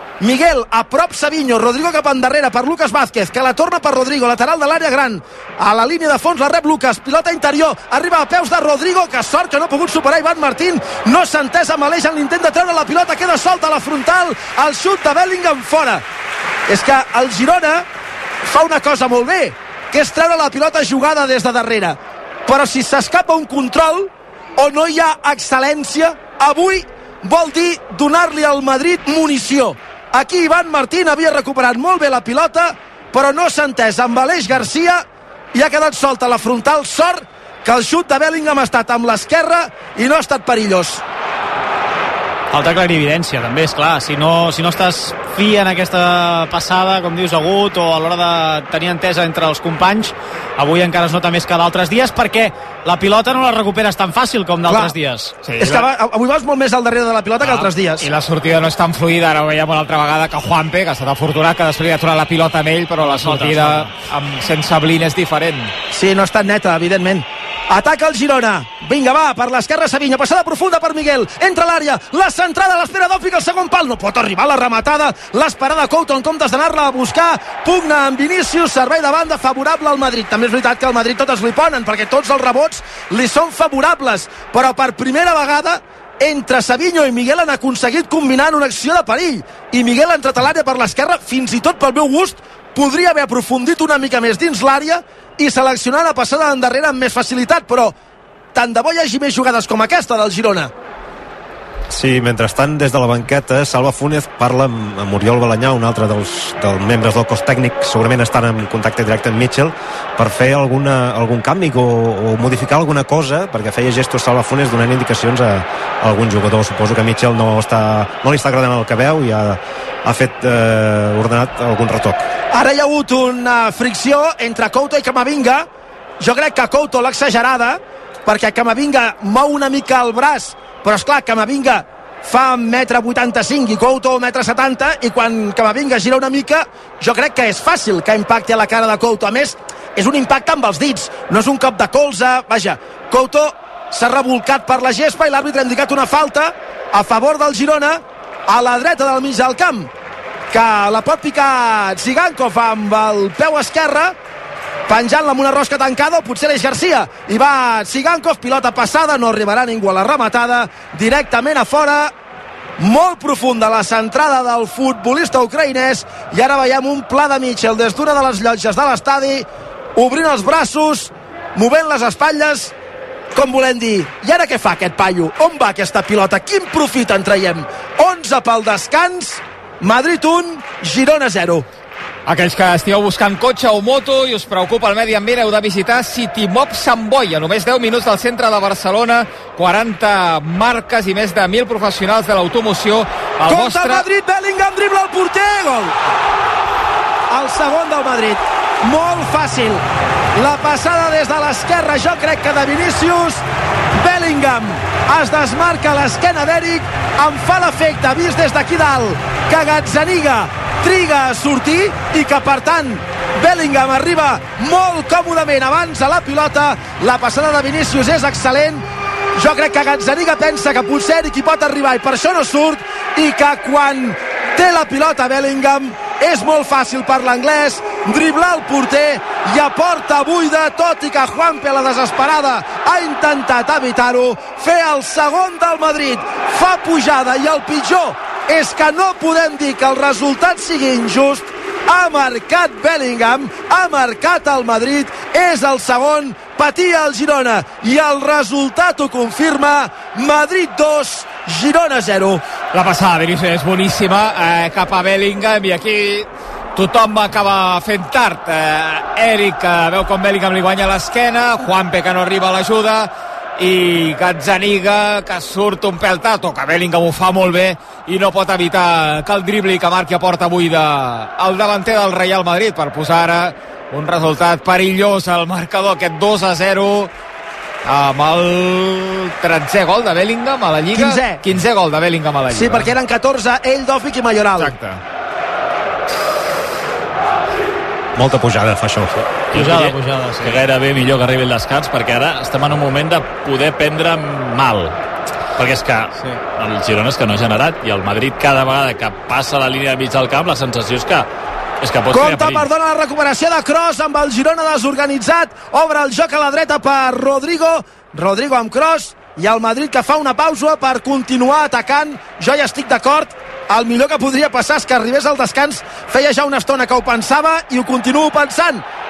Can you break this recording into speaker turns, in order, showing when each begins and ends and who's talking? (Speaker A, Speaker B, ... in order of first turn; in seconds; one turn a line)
Speaker A: 0.2-16.0
Speaker A: 16.7-17.9
Speaker A: 18.4-41.0
Speaker B: 42.5-55.3
Speaker A: 54.6-54.9
Speaker C: 55.4-55.8
Speaker A: 55.6-58.0
Speaker C: 57.4-65.7
Speaker B: 63.0-63.9
Speaker A: 65.9-97.9
Speaker A: 98.5-100.7
Speaker D: 101.9-122.3
Speaker A: 122.5-125.7
Speaker A: 126.2-149.9
Speaker A: 150.5-154.2
Speaker A: 154.9-162.1
Speaker A: 162.8-172.7
Speaker A: 173.3-181.7
Speaker C: 182.2-194.1
Speaker A: 193.5-195.9
Speaker A: 197.3-199.8
Speaker A: 200.3-203.4
Speaker A: 203.9-252.4
Speaker C: 252.7-277.1
Speaker C: 277.8-282.9
Speaker A: 280.9-281.4
Speaker A: 282.5-284.7
Speaker C: 284.6-285.0
Speaker D: 288.1-289.2
Speaker E: 289.5-294.9
Speaker B: 289.5-290.6
Speaker E: 295.6-301.3
Speaker E: 301.8-302.7
Speaker A: 302.1-318.8